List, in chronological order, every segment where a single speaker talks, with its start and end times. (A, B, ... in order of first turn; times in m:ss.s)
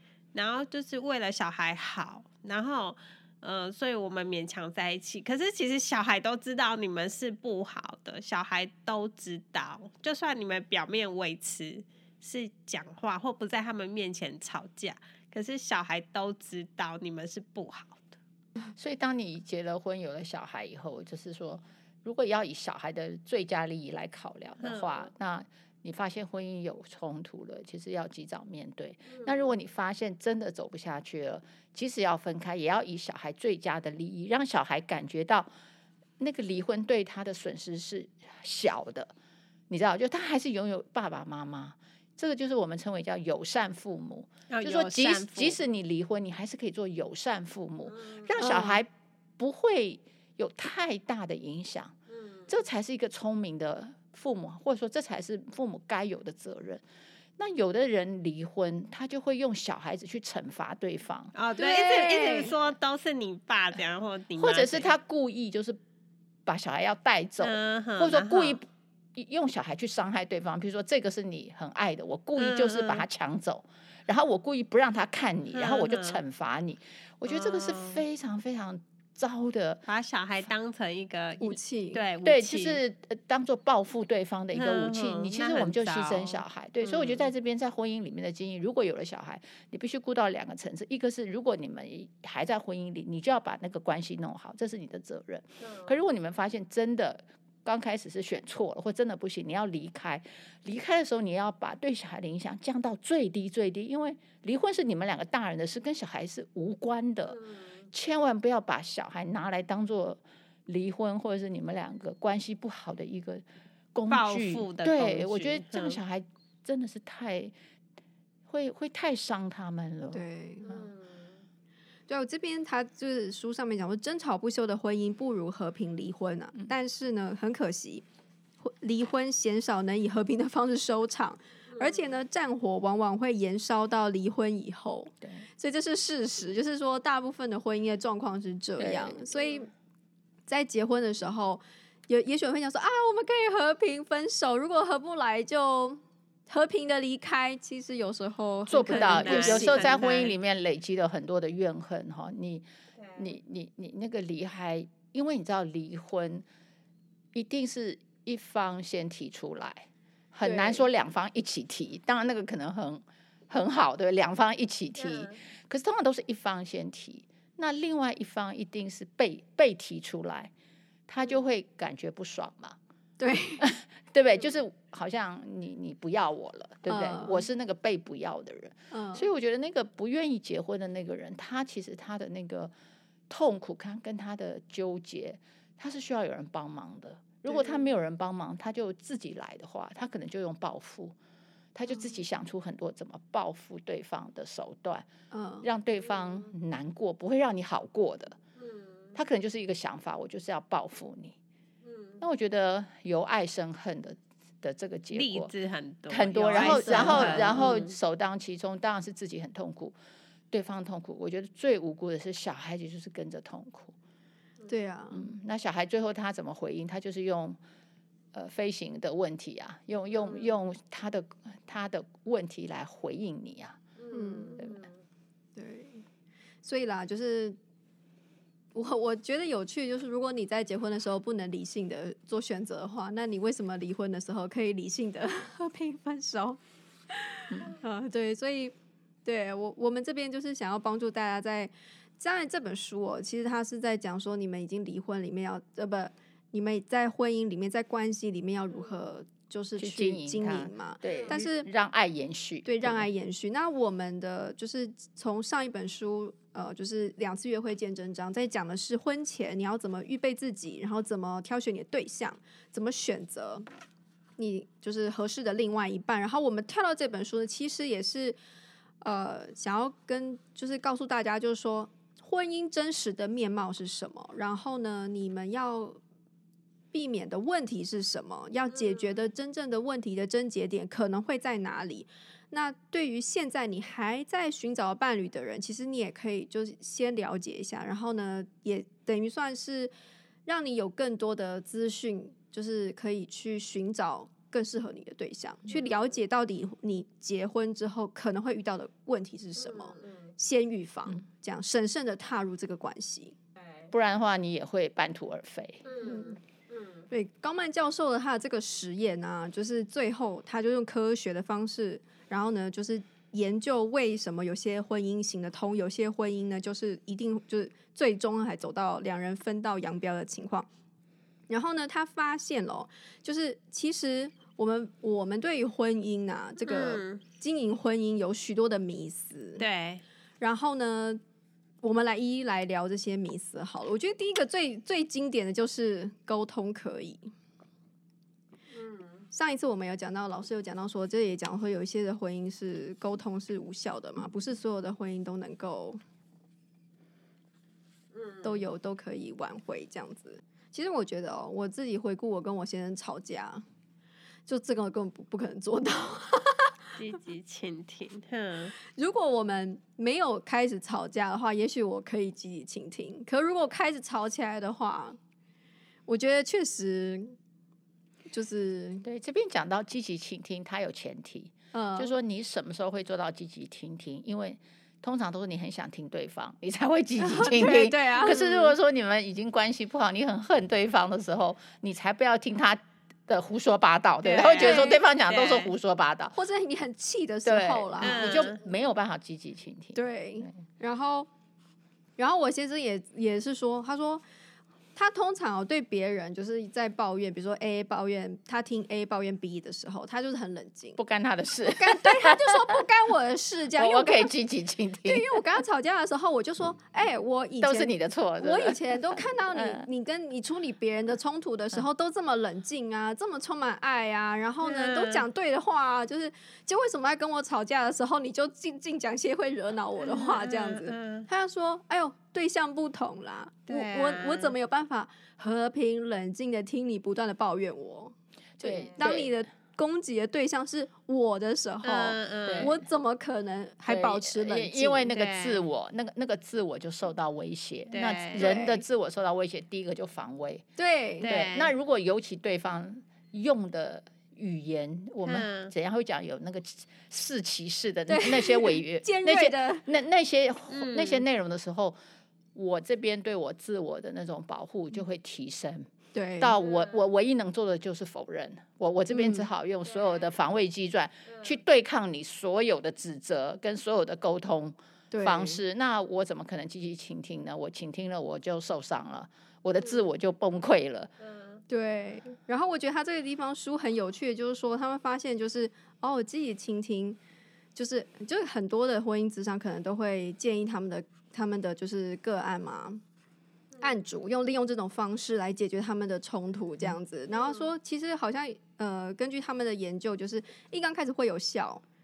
0:00.3-0:18.1 A
0:18.8-0:35.5 B
0:24.6-0:25.0 A
0:36.2-0:39.1 B
0:39.7-0:51.9 B
0:44.5-0:45.6 A
0:48.0-0:48.8 A
0:52.5-0:56.8 B
0:57.4-1:01.3 B
1:01.3-1:04.9 A
1:01.6-1:02.5 C
1:04.4-1:05.8 B
1:06.4-1:19.8 B
1:07.4-1:08.6 A
1:12.4-1:13.0 A
1:15.5-1:16.2 A
1:17.3-1:18.0 A
1:19.9-1:22.8 A
1:21.4-1:22.0 C
1:22.2-1:53.4 B
1:24.5-1:27.3 A
1:35.6-1:35.9 A
1:53.9-1:57.5 B
1:54.1-1:56.0 A
1:58.5-2:00.8 B
2:00.1-2:00.7 C
2:02.1-2:08.0 C
2:08.6-2:19.7 C
2:18.8-2:19.2 B
2:20.5-2:30.0 C
2:28.7-2:32.6 B
2:28.9-2:30.3 A
2:33.2-2:36.4 B
2:37.3-2:50.5 B
2:40.4-2:40.8 C
2:51.1-2:52.8 B
2:53.2-2:53.7 C
2:53.6-3:02.7 B
2:56.9-2:57.4 C
2:58.9-2:59.3 C
3:03.3-3:11.1 B
3:07.5-3:07.7 C
3:11.7-3:15.0 B
3:15.3-3:15.7 C
3:15.6-3:18.4 B
3:19.1-3:21.4 B
3:21.8-3:22.1 A
3:22.2-3:25.5 B
3:25.1-3:27.9 A
3:26.1-3:29.9 B
3:26.6-3:27.8 C
3:30.5-3:33.9 B
3:34.7-3:35.2 C
3:35.1-3:37.6 B
3:38.3-3:43.8 B
3:44.0-3:44.8 A
3:44.1-3:44.6 C
3:45.6-3:46.0 C
3:46.6-3:47.6 C
3:48.7-3:56.6 C
3:57.1-3:58.7 C
3:59.2-4:11.7 C
4:09.8-4:13.1 B
4:12.6-4:23.6 C
4:24.4-4:28.4 C
4:29.0-4:36.0 C
4:36.9-4:49.9 C
4:50.4-5:03.4 C
5:03.9-5:05.9 B
5:05.8-5:07.0 A
5:06.0-5:06.4 C
5:07.1-5:20.7 C
5:21.5-5:29.6 C
5:26.6-5:27.2 A
5:29.6-5:30.0 A
5:30.4-5:31.2 C
5:31.8-5:37.3 C
5:38.7-5:39.2 A
5:39.3-5:46.0 C
5:48.1-5:48.5 A
5:48.4-5:53.6 C
5:54.5-5:56.8 C
5:57.0-5:58.7 A
5:58.9-6:05.2 C
6:06.1-6:07.4 C
6:08.3-6:09.0 C
6:09.0-6:26.4 B
6:11.7-6:12.1 C
6:17.2-6:18.7 C
6:24.2-6:25.7 A
6:24.6-6:25.0 C
6:26.3-6:28.5 C
6:27.4-6:30.5 B
6:28.0-6:28.6 A
6:29.9-6:31.3 C
6:32.2-6:34.2 C
6:35.0-6:41.0 C
6:41.0-6:42.8 B
6:41.7-6:44.3 C
6:43.8-6:45.4 B
6:45.0-7:15.1 C
6:47.6-6:49.9 B
6:54.6-6:55.2 A
7:00.0-7:01.3 A
7:03.7-7:04.5 A
7:08.6-7:09.3 B
7:11.8-7:12.7 A
7:12.4-7:12.8 B
7:13.9-7:20.6 B
7:15.1-7:15.6 A
7:17.9-7:18.5 A
7:18.4-7:18.8 C
7:20.8-7:21.3 C
7:21.2-7:21.7 A
7:21.2-7:32.0 B
7:25.2-7:25.7 A
7:28.1-7:29.8 C
7:30.7-7:31.2 A
7:32.5-7:51.1 B
7:36.1-7:36.6 C
7:39.1-7:39.5 C
7:45.1-7:45.6 C
7:51.3-7:51.6 A
7:51.7-7:57.2 C
7:57.7-8:03.0 C
8:03.8-8:11.8 C